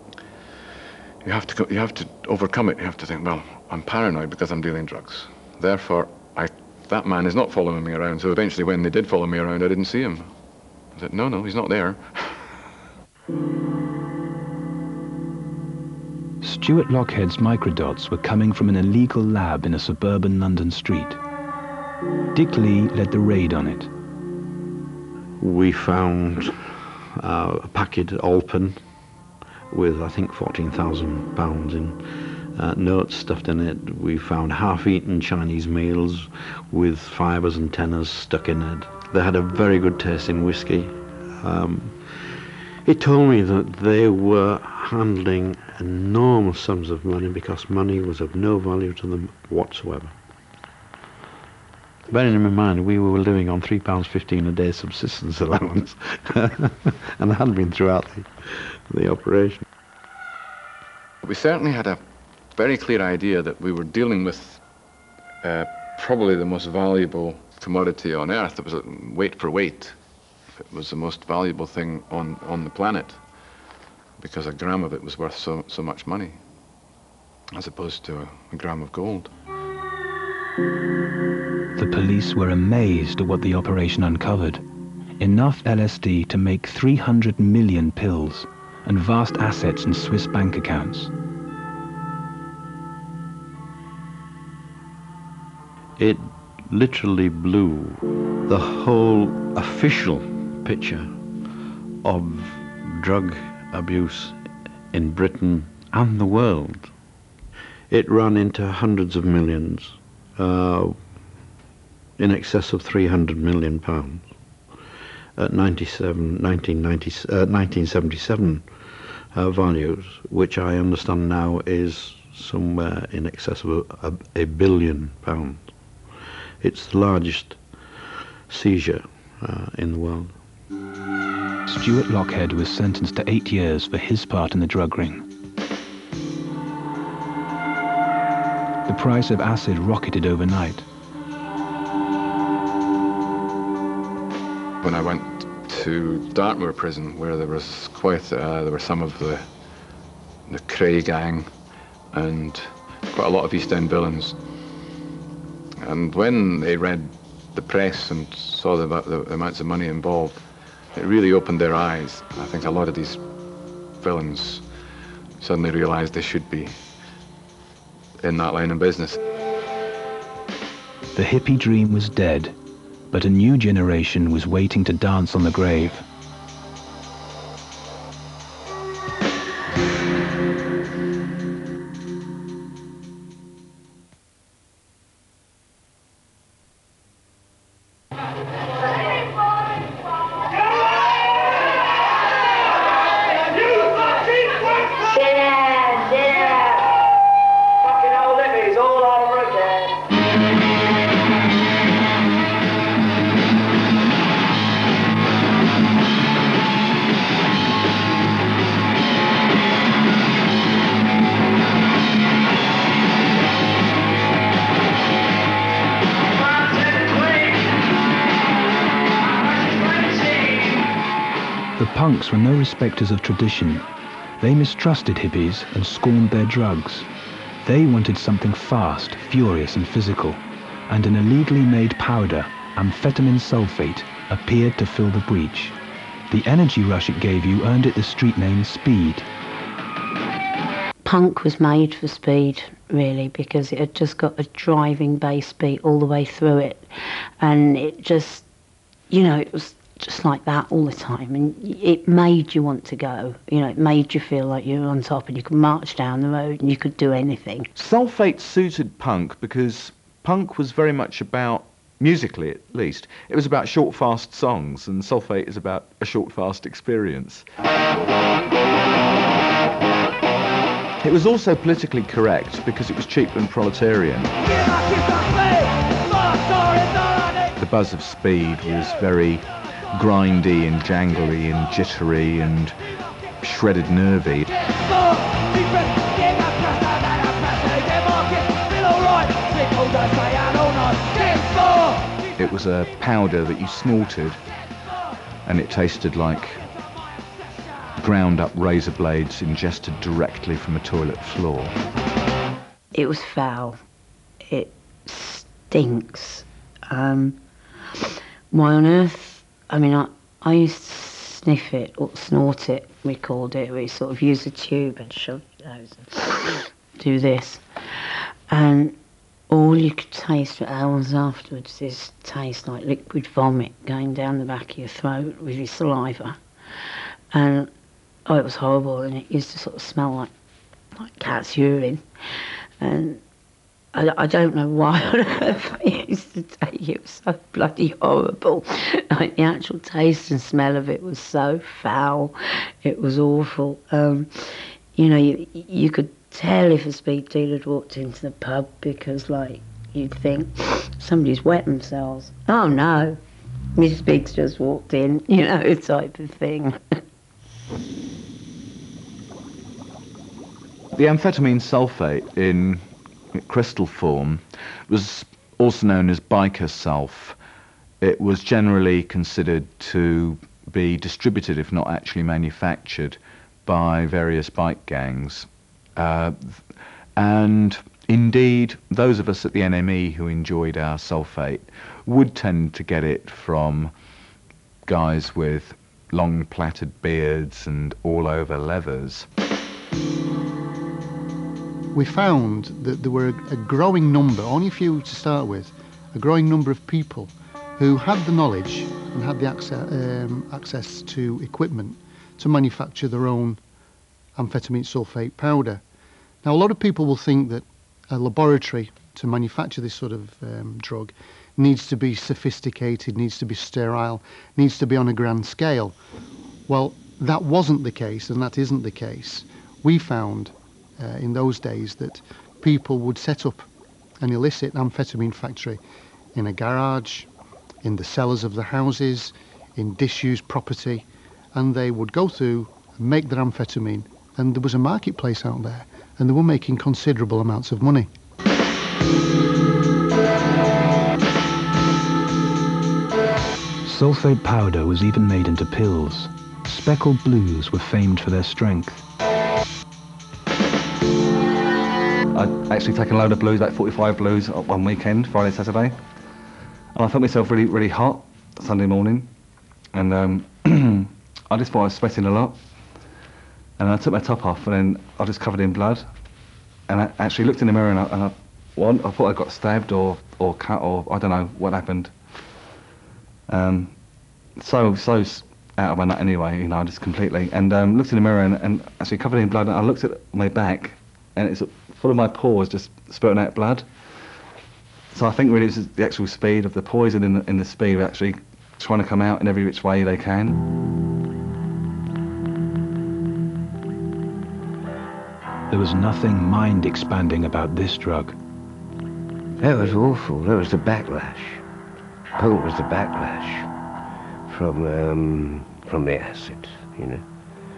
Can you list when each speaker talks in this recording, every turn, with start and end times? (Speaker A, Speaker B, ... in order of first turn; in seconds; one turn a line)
Speaker A: 1.2-10.4
Speaker A: 10.9-12.5
Speaker B: 16.4-21.2
Speaker B: 22.3-23.9
Speaker C: 25.4-28.8
Speaker C: 29.7-32.0
Speaker C: 32.5-50.1
Speaker C: 52.1-59.6
Speaker A: 61.2-62.0
Speaker A: 62.5-64.6
Speaker A: 65.4-70.0
Speaker A: 70.5-73.3
Speaker A: 74.2-76.4
Speaker A: 77.5-79.3
Speaker B: 81.7-84.6
Speaker B: 85.2-91.1
Speaker C: 96.0-101.1
Speaker C: 102.0-104.4
Speaker C: 104.9-106.9
Speaker C: 107.9-111.0
Speaker C: 112.2-114.3
Speaker C: 115.4-118.7
Speaker C: 119.3-125.7
Speaker C: 126.6-127.6
Speaker C: 128.5-130.4
Speaker B: 131.7-135.2
Speaker B: 138.9-140.8
Speaker A: 144.8-149.5
Speaker A: 150.5-151.5
Speaker A: 152.1-154.4
Speaker A: 155.8-163.2
Speaker A: 164.0-164.7
Speaker A: 165.4-166.8
Speaker A: 168.2-169.2
Speaker B: 171.1-172.6
Speaker B: 173.1-176.0
Speaker B: 221.8-223.8
Speaker B: 224.4-227.1
Speaker B: 227.6-235.7
Speaker B: 236.3-239.3
Speaker D: 241.0-246.9
Speaker D: 247.4-248.4
Speaker D: 249.1-257.7
Speaker E: 257.8-267.4
Speaker E: 271.0-274.4
Speaker E: 277.6-282.7
Speaker E: 283.4-284.6
Speaker E: 292.4-294.4
Speaker E: 295.4-296.6
Speaker E: 298.0-301.7
Speaker D: 302.9-303.8
Speaker D: 304.5-307.4
Speaker D: 308.5-317.6
Speaker D: 318.5-318.9
Speaker D: 319.5-326.4
Speaker D: 327.3-327.7
Speaker D: 328.3-330.3
Speaker D: 331.0-332.0
Speaker D: 332.8-333.2
Speaker D: 333.9-344.3
Speaker D: 344.9-353.2
Speaker D: 353.7-356.8
Speaker E: 360.9-367.4
Speaker E: 368.0-383.9
Speaker E: 384.8-389.3
Speaker F: 391.9-403.6
Speaker F: 404.4-405.8
Speaker F: 406.4-415.9
Speaker F: 416.7-423.7
Speaker F: 424.2-425.8
Speaker F: 426.3-427.3
Speaker F: 427.8-438.1
Speaker B: 443.8-449.0
Speaker G: 452.3-456.0
Speaker G: 456.9-459.3
Speaker G: 459.9-462.6
Speaker G: 463.8-466.0
Speaker G: 466.9-472.1
Speaker G: 473.5-473.9
Speaker E: 474.6-474.8
Speaker G: 474.7-483.8
Speaker E: 475.4-475.9
Speaker E: 477.0-477.6
Speaker E: 481.9-483.8
Speaker G: 485.2-488.3
Speaker E: 488.8-489.5
Speaker G: 488.9-490.5
Speaker B: 495.7-498.3
Speaker H: 499.6-501.6
Speaker H: 502.4-503.7
Speaker H: 504.5-507.2